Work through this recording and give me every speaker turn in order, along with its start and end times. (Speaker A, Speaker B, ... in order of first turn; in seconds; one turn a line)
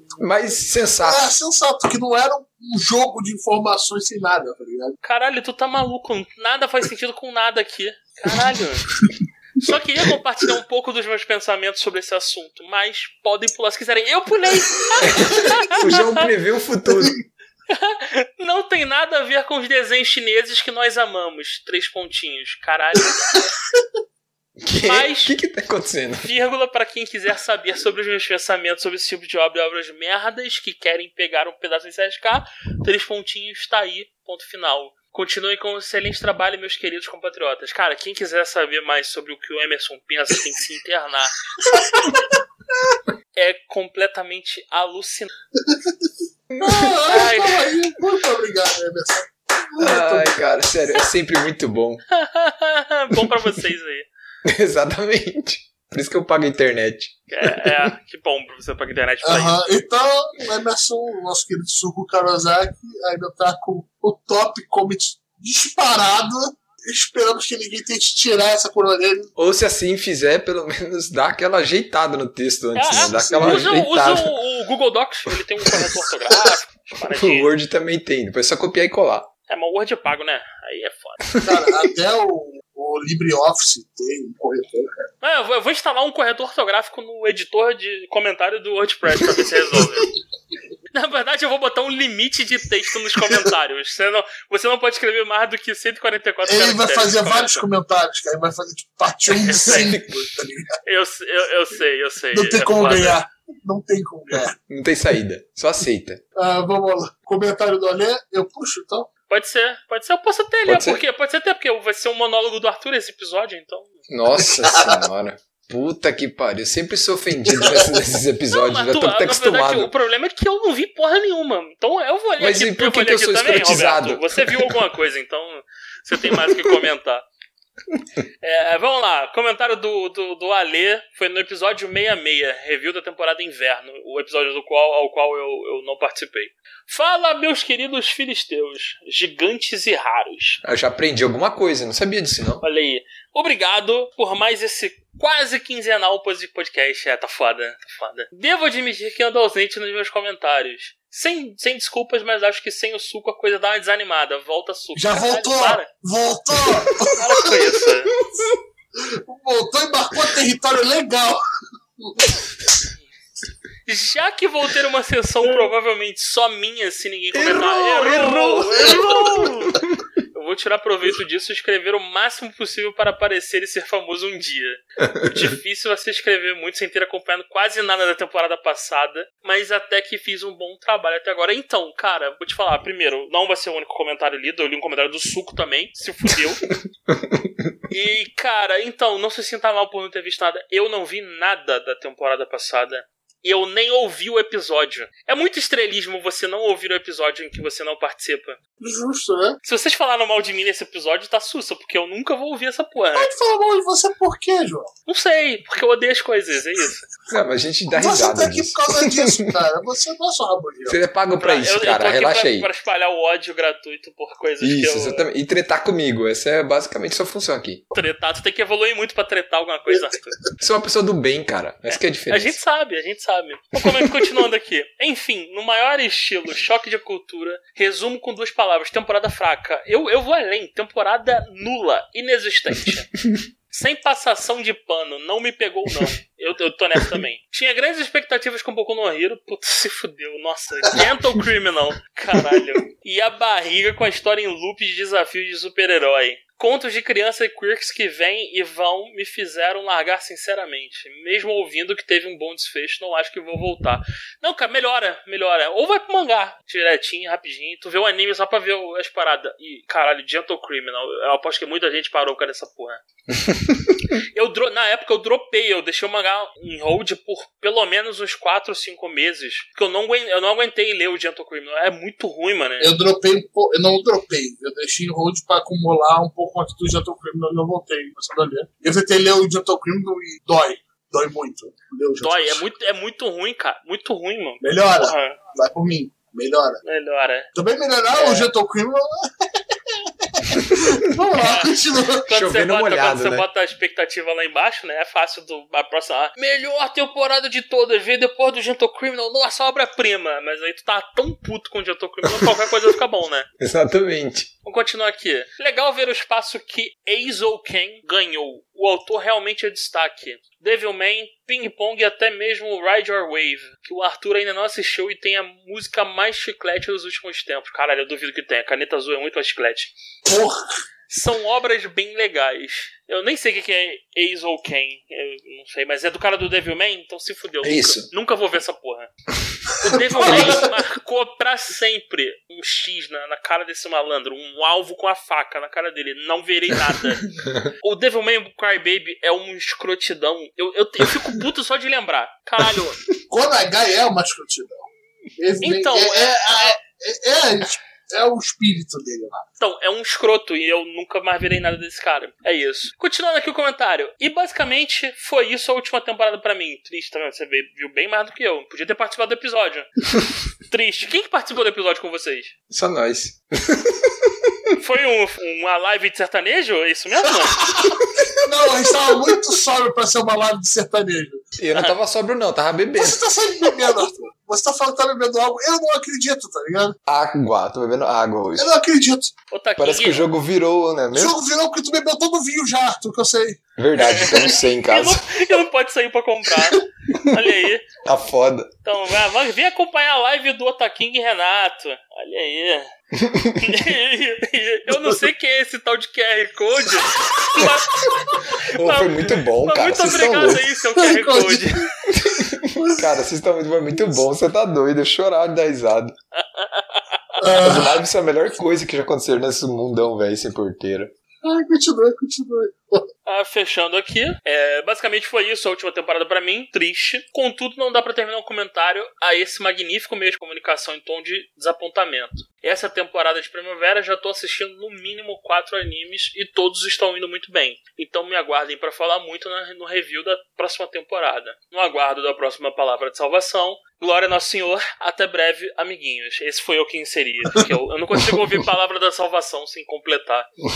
Speaker A: 0.2-1.2
Speaker B: 1.0-5.0
Speaker C: 5.0-8.9
Speaker C: 9.6-16.2
Speaker A: 15.0-17.2
Speaker C: 17.7-23.4
Speaker B: 23.1-23.8
Speaker A: 24.6-26.3
Speaker C: 24.8-25.4
Speaker C: 26.2-41.4
Speaker B: 41.6-42.4
Speaker C: 43.3-45.3
Speaker B: 45.6-46.1
Speaker A: 46.5-46.9
Speaker B: 46.6-50.4
Speaker C: 47.1-47.6
Speaker A: 49.8-52.0
Speaker C: 52.1-54.1
Speaker A: 54.4-57.8
Speaker C: 57.3-59.6
Speaker B: 59.2-69.3
Speaker A: 69.4-74.3
Speaker C: 72.8-77.5
Speaker B: 72.9-73.7
Speaker A: 77.0-79.3
Speaker C: 79.5-81.2
Speaker A: 81.3-81.6
Speaker B: 81.4-85.1
Speaker C: 85.2-90.1
Speaker C: 90.9-97.6
Speaker B: 96.5-100.7
Speaker C: 99.5-99.9
Speaker A: 99.7-100.3
Speaker C: 100.8-103.2
Speaker B: 102.3-104.5
Speaker A: 104.7-106.2
Speaker B: 106.3-109.1
Speaker C: 109.3-114.0
Speaker A: 110.7-111.0
Speaker A: 114.1-119.9
Speaker C: 118.5-127.2
Speaker A: 122.4-124.7
Speaker A: 126.3-126.7
Speaker C: 128.4-140.6
Speaker A: 140.6-142.6
Speaker C: 142.6-155.9
Speaker B: 154.9-157.3
Speaker C: 157.1-158.1
Speaker A: 158.2-158.5
Speaker B: 158.9-161.4
Speaker B: 162.0-162.4
Speaker C: 163.8-169.8
Speaker A: 167.3-170.0
Speaker C: 170.3-186.6
Speaker A: 175.0-175.3
Speaker A: 187.1-187.7
Speaker C: 187.9-198.6
Speaker B: 198.8-199.6
Speaker C: 199.6-203.3
Speaker B: 203.1-204.9
Speaker C: 205.1-207.1
Speaker A: 207.3-209.5
Speaker B: 207.9-211.0
Speaker A: 210.8-212.7
Speaker C: 211.4-215.2
Speaker A: 214.6-217.8
Speaker C: 217.9-220.4
Speaker A: 220.6-222.6
Speaker C: 221.9-233.1
Speaker C: 233.7-263.0
Speaker A: 242.3-242.6
Speaker A: 263.5-263.9
Speaker C: 264.3-272.9
Speaker B: 272.8-282.6
Speaker C: 282.2-285.4
Speaker B: 284.6-286.8
Speaker C: 286.8-287.5
Speaker B: 287.5-292.2
Speaker C: 288.1-288.5
Speaker C: 291.4-291.7
Speaker C: 292.3-303.5
Speaker A: 292.3-293.5
Speaker A: 302.2-302.6
Speaker A: 303.6-304.5
Speaker C: 304.6-319.9
Speaker B: 320.2-320.7
Speaker C: 321.1-329.1
Speaker A: 327.6-328.1
Speaker C: 329.8-337.2
Speaker B: 330.1-330.7
Speaker A: 330.2-330.6
Speaker C: 337.8-343.0
Speaker B: 343.3-349.4
Speaker C: 345.6-346.7
Speaker C: 349.6-359.9
Speaker C: 360.7-362.5
Speaker A: 362.7-364.5
Speaker C: 364.8-367.6
Speaker B: 367.5-371.4
Speaker A: 371.6-373.2
Speaker B: 373.0-376.9
Speaker A: 377.1-378.7
Speaker B: 378.6-379.3
Speaker C: 379.5-380.2
Speaker A: 379.8-381.4
Speaker B: 381.1-383.6
Speaker A: 383.8-385.2
Speaker C: 384.0-387.8
Speaker B: 384.2-384.4
Speaker A: 388.0-388.7
Speaker C: 388.8-392.9
Speaker A: 393.1-393.9
Speaker C: 393.6-398.1
Speaker A: 398.7-400.6
Speaker C: 398.7-401.8
Speaker B: 400.9-403.0
Speaker A: 402.1-406.1
Speaker C: 406.3-407.4
Speaker B: 407.4-408.0
Speaker A: 407.6-411.1
Speaker B: 411.4-413.1
Speaker C: 413.2-440.5